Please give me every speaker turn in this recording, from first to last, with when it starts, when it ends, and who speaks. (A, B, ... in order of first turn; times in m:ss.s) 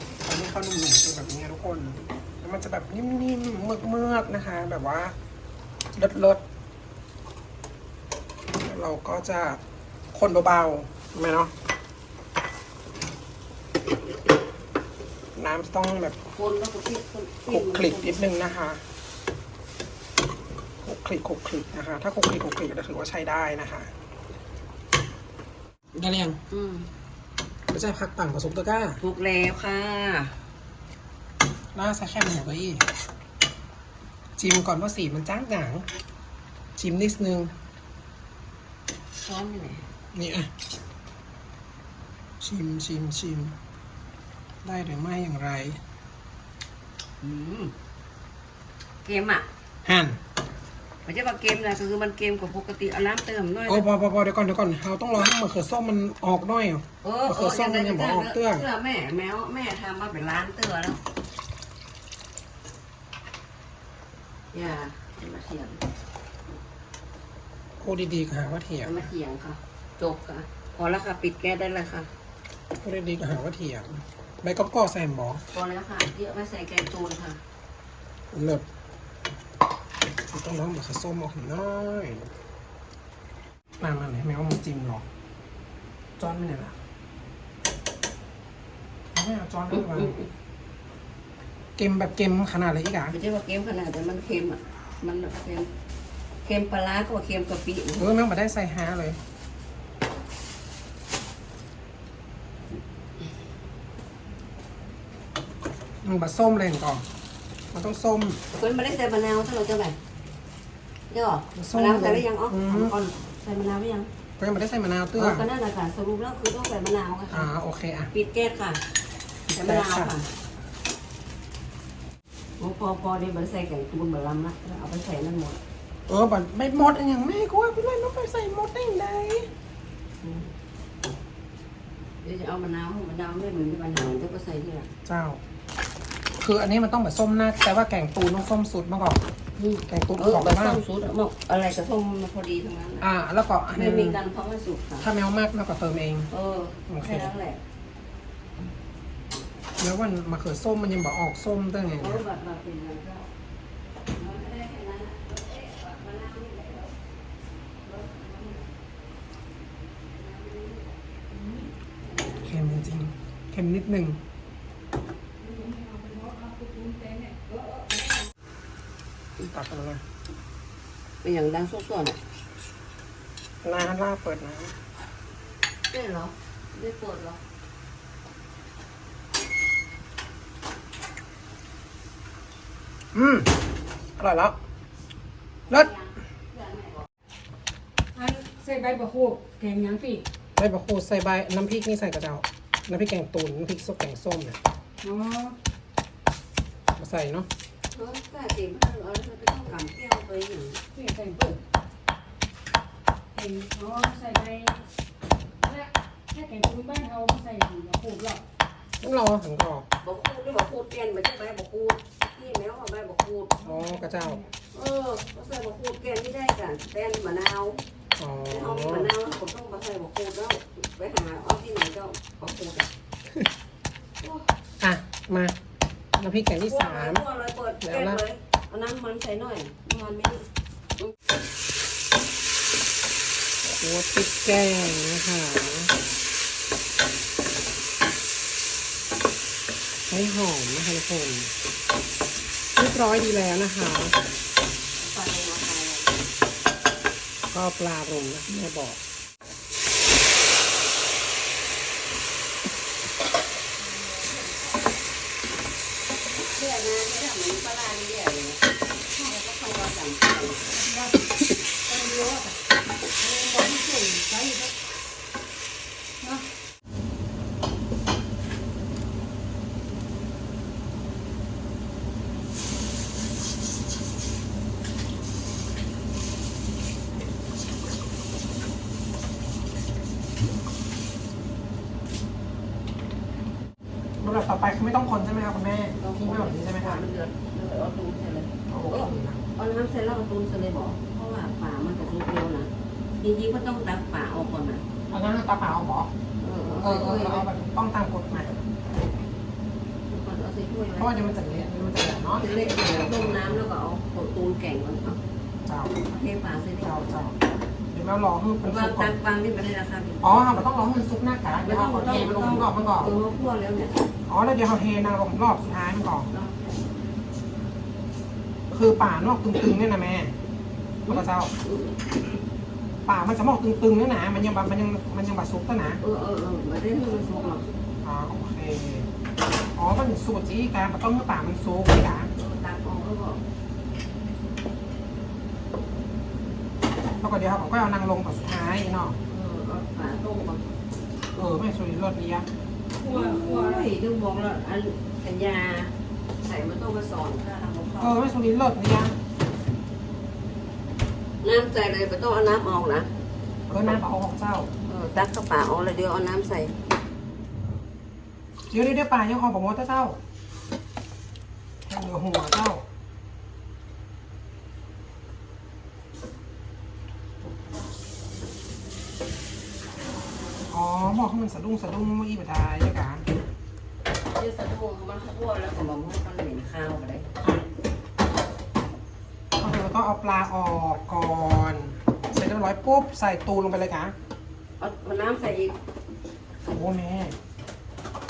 0:00.2-0:05.2 A
0:06.0-0:06.4 A
0:08.6-0:09.6 A
0:10.1-0:11.5 A
0:15.4-0:16.2 A
0:16.4-0:18.3 B
0:17.5-0:18.8 A
0:20.8-0:23.9 A
0:26.0-0:26.4 A
0:26.5-0:26.9 B
0:27.7-0:29.0 A
0:29.0-0:30.4 B
0:31.8-0:32.9 A
0:34.4-0:35.9 A
0:36.8-0:37.5 A
0:39.2-0:39.9 B
0:40.1-0:40.5 A
0:42.4-0:43.6 A
0:44.6-0:45.8 A
0:47.2-0:47.7 B
0:49.0-0:49.5 B
0:49.8-0:50.2 A
0:51.1-0:53.9 B
0:53.7-0:58.6 A
0:57.0-1:01.0 B
1:04.5-1:05.8 B
1:07.8-1:09.1 A
1:08.8-1:12.1 B
1:12.8-1:15.4 A
1:15.5-1:17.4 B
1:18.3-1:18.6 A
1:20.3-1:22.3 A
1:23.8-1:25.0 A
1:26.2-1:26.8 A
1:29.1-1:30.2 A
1:29.7-1:30.3 B
1:31.8-1:33.2 A
1:33.1-1:35.7 B
1:36.4-1:38.0 B
1:38.0-1:39.2 A
1:46.0-1:47.1 A
1:47.7-1:48.4 A
1:48.5-1:50.0 B
1:51.1-1:54.1 B
1:51.6-1:52.9 A
1:54.4-1:55.5 A
1:55.2-1:57.5 B
1:57.3-1:58.1 A
1:58.1-1:58.8 B
1:59.5-2:00.1 A
1:59.5-2:00.3 B
2:02.6-2:05.6 B
2:06.1-2:09.5 A
2:10.2-2:10.5 B
2:12.2-2:14.9 B
2:15.1-2:15.4 A
2:16.4-2:19.2 A
2:19.6-2:23.1 B
2:19.9-2:20.8 A
2:23.0-2:24.2 A
2:23.8-2:25.1 B
2:25.0-2:26.3 A
2:26.3-2:27.6 B
2:26.9-2:27.3 A
2:29.8-2:32.2 A
2:32.0-2:33.2 B
2:34.2-2:36.9 B
2:37.8-2:38.7 B
2:40.2-2:40.9 B
2:42.2-2:42.4 B
2:42.4-2:44.2 A
2:45.4-2:47.8 C
2:49.4-2:50.0 A
2:51.2-2:52.2 B
2:53.6-2:54.8 A
2:55.9-2:57.4 B
3:03.1-3:03.5 A
3:04.2-3:04.6 A
3:05.7-3:07.1 B
3:08.2-3:10.2 C
3:10.6-3:14.6 A
3:15.0-3:15.6 C
3:17.0-3:17.5 A
3:17.9-3:20.8 B
3:21.0-3:21.6 C
3:23.4-3:24.8 C
3:25.6-3:28.4 C
3:29.0-3:29.9 A
3:30.0-3:33.6 B
3:33.6-3:34.5 C
3:33.6-3:34.4 A
3:34.7-3:37.8 B
3:38.2-3:39.1 A
3:38.5-3:42.9 B
3:44.2-3:44.5 B
3:44.8-3:45.6 A
3:46.2-3:47.2 A
3:46.7-3:50.5 B
3:47.8-3:48.2 A
3:53.8-3:55.9 A
4:00.1-4:01.5 A
4:02.8-4:04.2 A
4:05.0-4:06.2 B
4:07.5-4:09.0 A
4:13.8-4:14.8 C
4:16.6-4:18.6 B
4:19.2-4:20.7 B
4:20.7-4:21.3 C
4:21.8-4:22.6 C
4:23.2-4:24.9 C
4:44.2-4:47.0 A
4:46.0-4:54.8 B
4:48.7-4:49.4 A
4:55.1-4:56.1 A
4:56.4-4:57.5 B
4:56.8-4:58.6 A
5:00.1-5:01.7 B
5:01.0-5:03.6 A
5:02.3-5:05.2 B
5:05.6-5:06.1 A
5:06.1-5:07.2 B
5:06.8-5:07.4 A
5:07.9-5:09.2 A
5:08.6-5:10.6 B
5:10.2-5:13.1 A
5:11.6-5:14.1 B
5:14.3-5:16.3 A
5:16.3-5:16.6 B
5:18.7-5:20.3 A
5:21.1-5:21.5 A
5:21.1-5:22.0 B
5:23.1-5:26.0 A
5:26.0-5:27.6 B
5:27.1-5:27.6 C
5:28.0-5:29.1 A
5:29.8-5:32.3 A
5:32.4-5:33.4 B
5:37.2-5:39.2 A
5:39.3-5:40.7 B
5:41.3-5:42.5 A
5:43.0-5:43.9 C
5:43.0-5:48.2 B
5:48.0-5:49.2 A
5:51.4-5:53.1 B
5:53.7-5:54.7 A
5:54.9-5:56.7 B
5:58.7-6:00.2 A
6:01.9-6:02.8 A
6:10.7-6:13.2 A
6:14.3-6:17.3 B
6:19.6-6:24.2 A
6:24.8-6:25.8 B
6:26.7-6:27.4 A